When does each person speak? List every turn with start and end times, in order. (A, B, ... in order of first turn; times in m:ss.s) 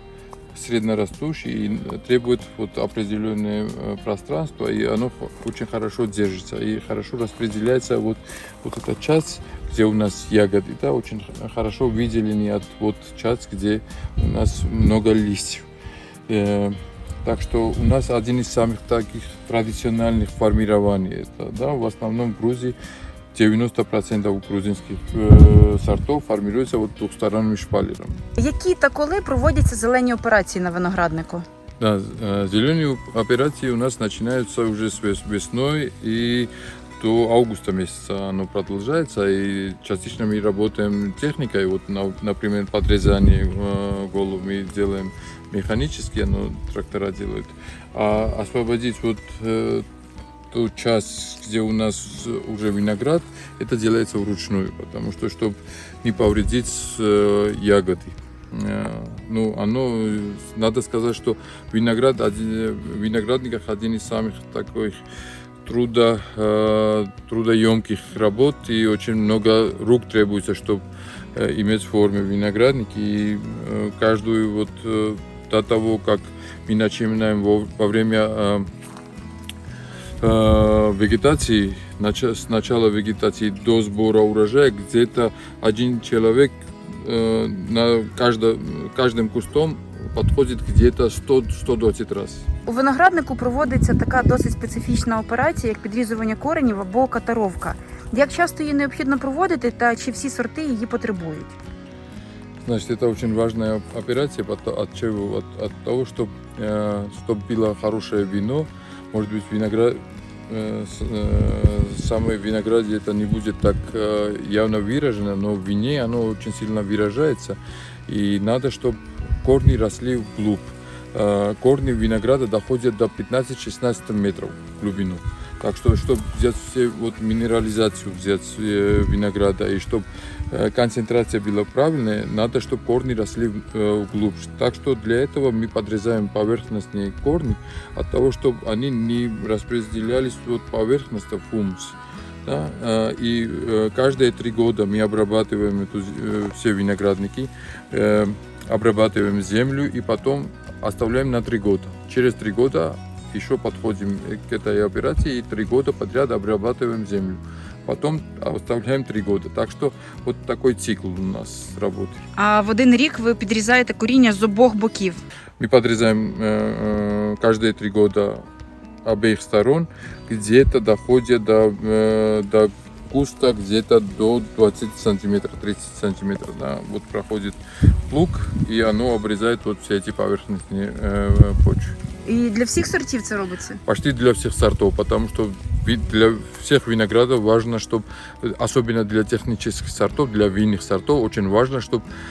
0:00.5-0:15.6 A
0:16.3-0:22.8 A
0:23.3-0:28.2 A
0:28.4-0:31.4 B
0:31.8-0:49.8 A
0:50.5-1:05.0 A
1:05.6-1:10.8 A
1:11.3-1:18.7 A
1:20.2-1:32.5 A
1:32.6-1:41.6 B
1:42.6-2:42.2 A
2:42.4-2:45.2 B
2:45.6-2:48.4 A
2:49.0-3:02.0 A
3:02.2-3:03.8 B
3:03.8-3:12.0 A